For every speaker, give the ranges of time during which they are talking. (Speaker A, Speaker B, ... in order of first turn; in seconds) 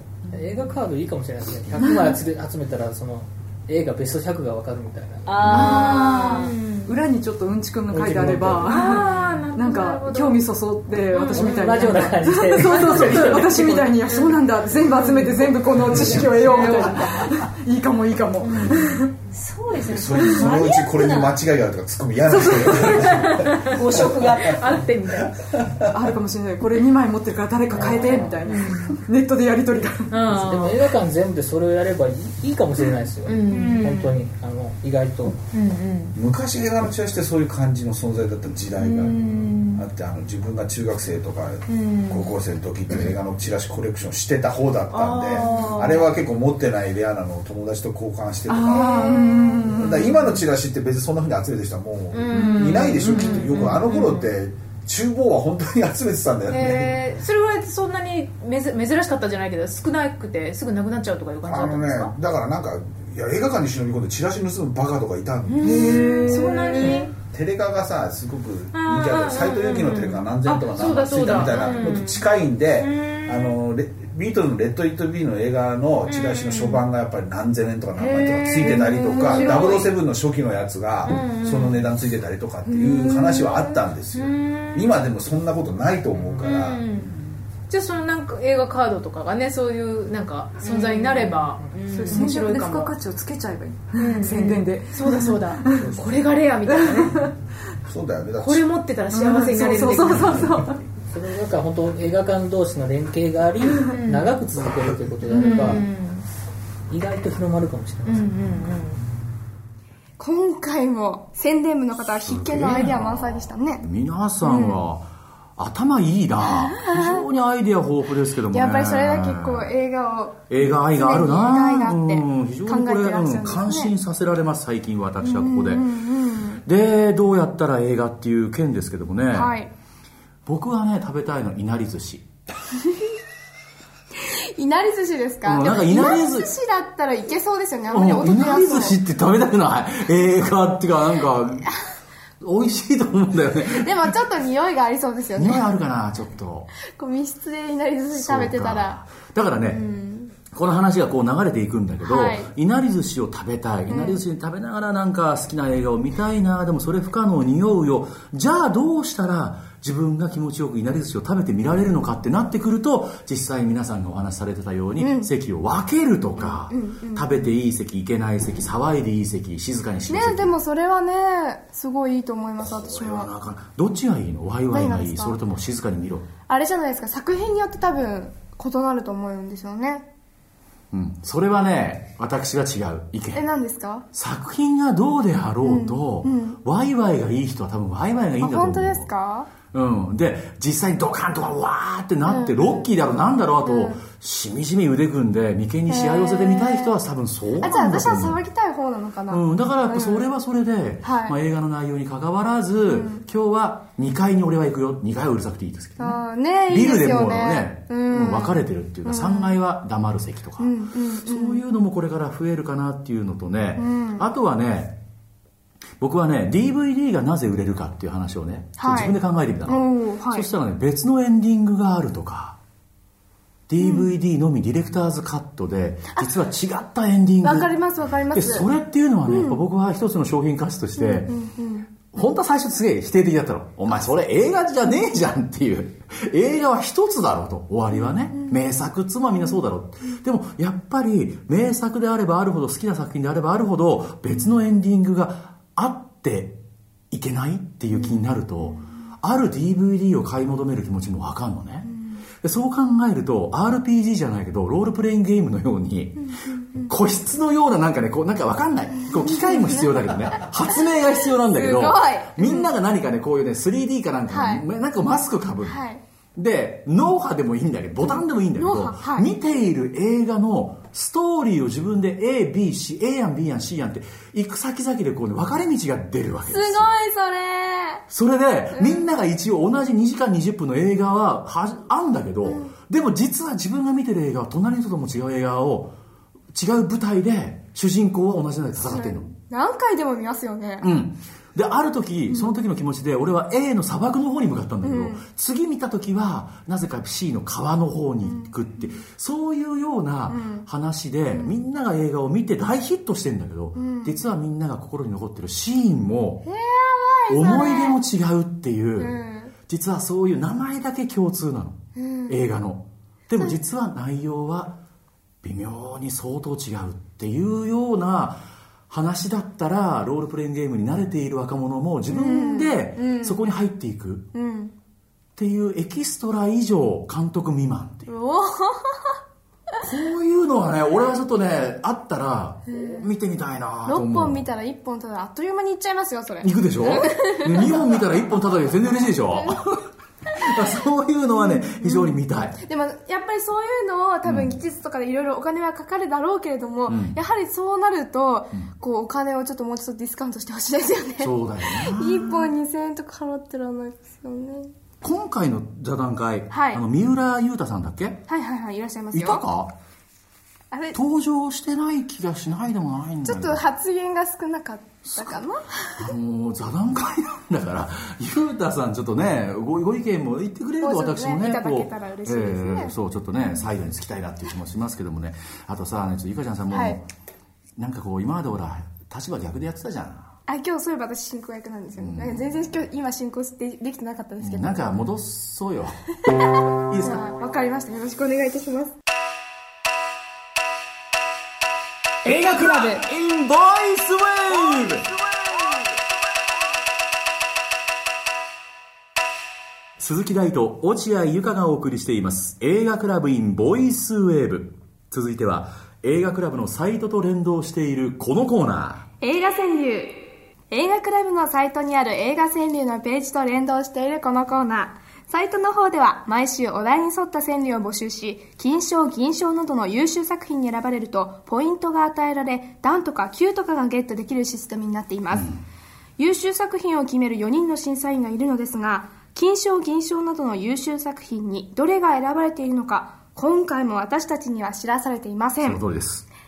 Speaker A: 0.3-5.6, 7.9-8.9, 11.3-13.9, 27.8-28.3, 30.2-35.4, 86.2-86.5, 91.1-91.8, 101.1-105.9, 106.9-108.3
Speaker B: 1.8-2.2, 5.5-19.1, 22.3-23.1, 25.9-30.2, 48.5-50.3, 52.3-53.7, 65.6-67.0, 91.9-96.0, 96.7-97.3, 99.1-100.8
Speaker C: 5.2-6.5, 19.3-21.4, 23.6-24.6
Speaker D: 5.5-7.0, 8.7-10.4, 11.1-11.6, 12.8-13.5, 14.1-14.4, 14.9-17.3, 18.4-19.0, 23.1-25.4, 27.8-29.0, 30.1-30.8, 33.2-34.2, 35.5-36.2, 38.8-39.8, 41.7-42.3, 44.9-46.1, 48.7-49.7, 52.1-54.3, 56.5-62.1, 65.6-67.1, 68.7-73.5, 76.1-76.8, 78.0-79.9, 81.0-81.9, 82.7-84.9, 86.4-87.1, 87.7-92.9, 94.0-97.3, 98.4-100.5, 103.8-104.4, 105.3-106.2, 108.0-109.0
Speaker E: 15.9-16.3, 19.8-24.3, 25.3-25.9, 36.1-39.2, 39.7-57.0, 61.4-87.3, 97.8-98.7
Speaker F: 110.2-113.8, 114.4-114.8, 116.4-117.2, 118.5-123.9, 125.2-126.6, 129.3-129.7, 134.2-139.0, 143.7-145.7, 146.8-149.0, 149.6-150.4, 152.0-152.5, 153.9-154.2, 165.0-165.3, 166.4-167.5, 170.1-173.3, 174.7-175.4, 176.5-180.1, 183.3-184.1, 185.6-186.6, 188.4-189.5, 192.2-192.9, 193.6-194.0, 195.9-197.0, 197.6-200.3, 201.0-201.4, 202.8-203.2, 206.0-209.6, 210.6-211.6, 213.8-214.3, 218.8-220.5, 223.8-224.1, 227.4-228.7, 229.2-229.6, 231.0-231.9, 237.9-238.6, 247.9-248.7, 251.9-252.2, 259.1-260.1, 260.7-262.7, 264.3-264.6, 265.6-266.0, 268.1-269.3, 276.5-278.0, 278.7-279.1, 282.4-282.8, 288.8-290.9, 292.3-292.5, 294.8-295.2, 298.2-298.9, 300.3-300.7, 303.7-304.2, 306.4-308.0, 309.0-309.5, 311.9-312.4, 322.1-323.4, 324.3-324.7, 328.1-329.2, 332.7-333.1, 333.9-338.2, 338.8-339.6, 341.3-354.7, 356.5-356.8, 358.3-359.4, 360.7-361.0, 363.2-366.1, 370.8-373.6, 376.7-377.0, 380.5-384.9, 386.9-388.9, 392.2-393.0, 409.2-425.5, 426.2-435.8
Speaker G: 112.2-119.7, 120.5-125.9, 126.6-129.5, 130.4-132.3, 135.4-136.5, 137.9-141.7, 142.4-144.1, 145.3-146.7, 148.1-149.8, 150.5-170.6, 172.6-176.3, 180.9-183.4, 184.1-189.1, 189.6-198.4, 199.3-215.0, 216.0-222.6, 223.7-227.8, 228.3-231.3, 232.0-246.6, 247.1-251.9, 252.4-265.8, 266.4-276.9, 278.1-285.9, 286.5-289.3, 290.8-306.4, 307.3-311.8, 312.3-314.8, 315.4-324.3, 325.4-328.1, 329.8-334.4, 336.4-339.8, 340.4-342.6, 344.2-344.5, 346.9-347.2, 351.2-352.5, 355.0-358.2, 359.1-359.7, 360.9-363.6, 365.1-365.4, 366.0-377.0, 377.8-380.3, 382.0-382.4, 384.4-385.9, 386.9-387.2, 392.2-395.9, 400.0-409.1, 435.6-436.2